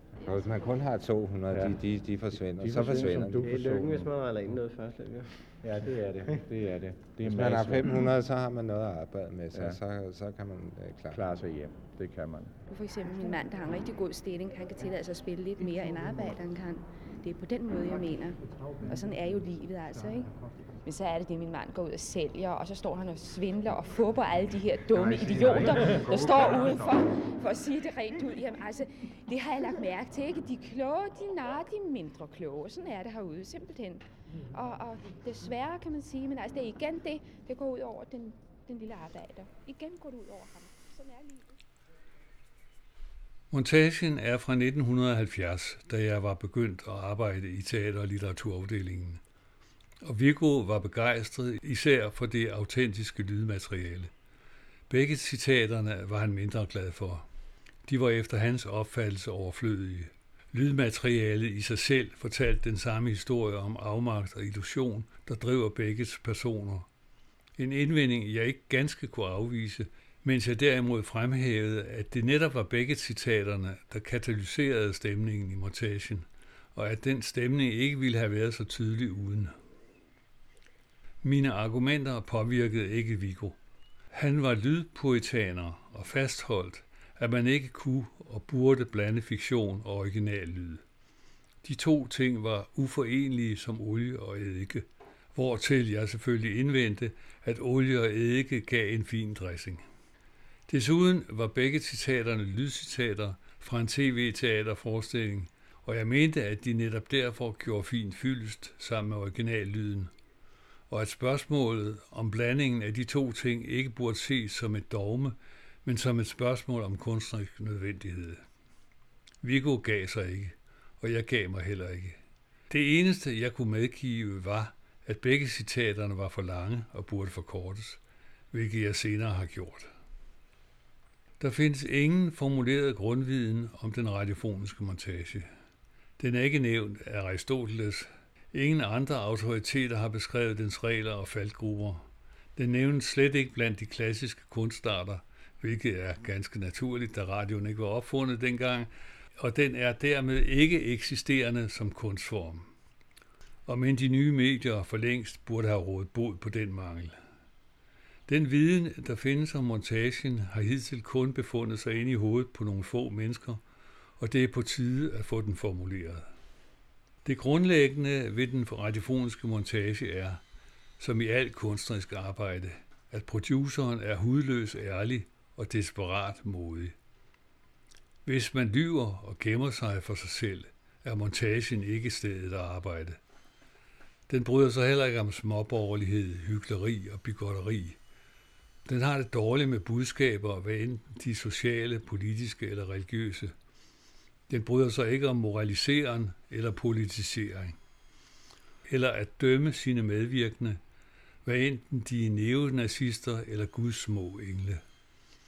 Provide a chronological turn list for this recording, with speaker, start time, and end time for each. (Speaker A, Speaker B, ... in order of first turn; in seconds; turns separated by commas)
Speaker A: 0.2-4.0, Speaker B: 1.5-3.9, Speaker C: 3.4-6.5, Speaker B: 5.6-8.1, Speaker A: 7.2-11.2, Speaker B: 9.5-9.8, Speaker B: 11.1-12.5, Speaker D: 12.7-41.5, Speaker B: 25.0-26.6, Speaker E: 43.5-49.2, Speaker E: 50.0-54.1, Speaker E: 54.9-57.2, Speaker E: 57.9-66.9, Speaker E: 67.6-79.5, Speaker E: 81.2-83.6, Speaker E: 84.1-90.8, Speaker E: 91.6-99.8, Speaker E: 100.7-110.1, Speaker E: 110.9-118.4, Speaker E: 119.4-122.2, Speaker E: 122.7-128.0, Speaker E: 128.5-129.9, Speaker E: 131.4-135.5, Speaker E: 136.2-142.0, Speaker E: 142.6-152.7, Speaker E: 153.7-157.1, Speaker E: 158.3-163.6, Speaker E: 164.2-166.2, Speaker E: 167.2-170.4, Speaker E: 171.0-176.9, Speaker E: 178.2-183.2, Speaker E: 184.3-188.0, Speaker E: 188.8-193.5, Speaker E: 194.5-197.8, Speaker E: 198.9-200.8, Speaker E: 201.4-204.8